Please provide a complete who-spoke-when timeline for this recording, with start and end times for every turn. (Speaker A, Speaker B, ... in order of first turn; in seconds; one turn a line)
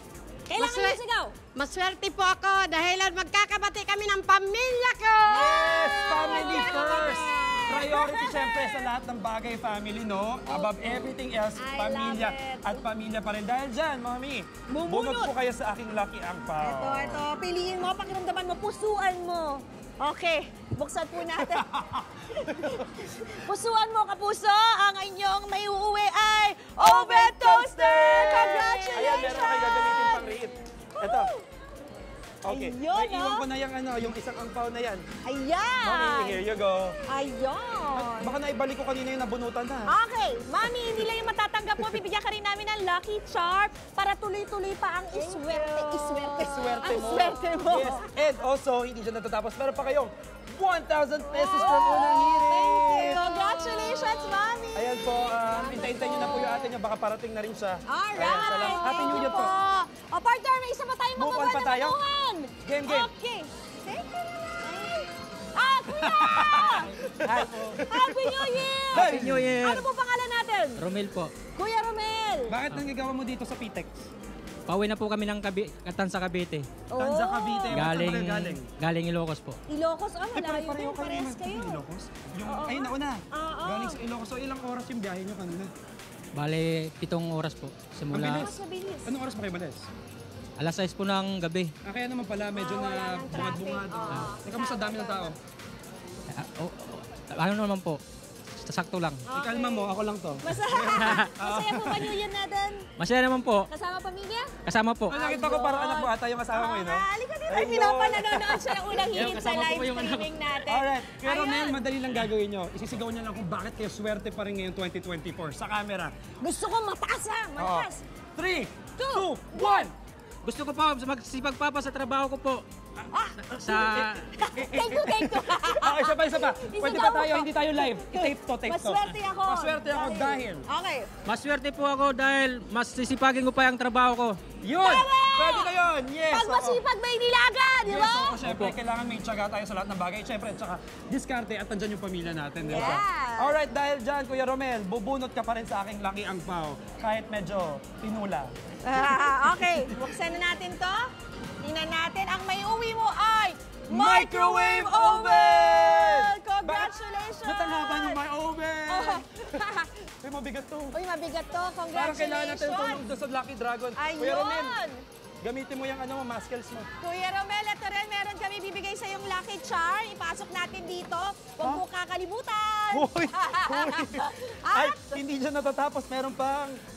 Speaker A: 0.5-1.3
Speaker B: 0.6-1.0
Speaker B: 1.6-6.9
Speaker C: 5.3-17.2
Speaker A: 5.3-8.9
Speaker A: 10.5-12.8
Speaker A: 14.7-15.3
Speaker A: 16.6-21.7
Speaker C: 21.5-22.9
Speaker A: 22.3-31.4
Speaker C: 26.8-31.3
Speaker C: 32.4-35.1
Speaker A: 32.4-33.4
Speaker A: 35.2-36.4
Speaker C: 35.8-37.0
Speaker A: 37.1-38.4
Speaker C: 37.9-39.9
Speaker A: 39.9-48.2
Speaker C: 46.2-53.3
Speaker A: 51.3-56.7
Speaker C: 54.7-59.5
Speaker A: 57.9-66.9
Speaker C: 61.1-62.0
Speaker C: 62.6-63.1
Speaker C: 66.0-69.6
Speaker D: 67.1-67.8
Speaker A: 67.9-70.8
Speaker D: 68.9-69.9
Speaker D: 70.8-71.3
Speaker A: 71.5-72.6
Speaker C: 72.5-74.1
Speaker D: 74.7-76.7
Speaker A: 76.9-77.9
Speaker C: 77.0-78.7
Speaker D: 77.7-79.6
Speaker A: 79.7-81.8
Speaker C: 80.3-85.7
Speaker A: 82.4-84.0
Speaker D: 86.3-88.5
Speaker C: 88.1-89.9
Speaker A: 88.2-89.2
Speaker D: 90.6-91.7
Speaker C: 91.8-95.4
Speaker A: 92.5-95.3
Speaker D: 94.1-94.3
Speaker D: 96.3-98.0
Speaker D: 98.6-99.2
Speaker A: 99.3-102.9
Speaker C: 99.3-102.1
Speaker D: 103.0-103.7
Speaker A: 103.7-104.5
Speaker D: 104.7-105.1
Speaker C: 105.1-109.4
Speaker A: 105.1-111.8
Speaker D: 109.1-110.3
Speaker C: 110.7-116.1
Speaker A: 116.4-118.0
Speaker C: 117.6-119.9
Speaker A: 119.0-119.9
Speaker D: 120.4-122.6
Speaker A: 123.1-123.8
Speaker D: 123.5-124.3
Speaker C: 123.7-124.0
Speaker A: 124.4-131.1
Speaker C: 124.6-130.7
Speaker D: 131.3-134.4
Speaker C: 134.6-136.8
Speaker A: 134.8-135.8
Speaker A: 136.3-138.4
Speaker C: 137.8-150.1
Speaker D: 138.4-138.8
Speaker A: 142.6-143.6
Speaker A: 148.8-151.0
Speaker A: 151.6-158.2
Speaker C: 153.9-159.2
Speaker A: 158.9-159.9
Speaker C: 160.2-161.0
Speaker A: 160.9-163.0
Speaker C: 161.9-164.8
Speaker A: 163.9-165.0
Speaker C: 165.4-166.9
Speaker A: 167.0-175.2
Speaker C: 172.9-176.8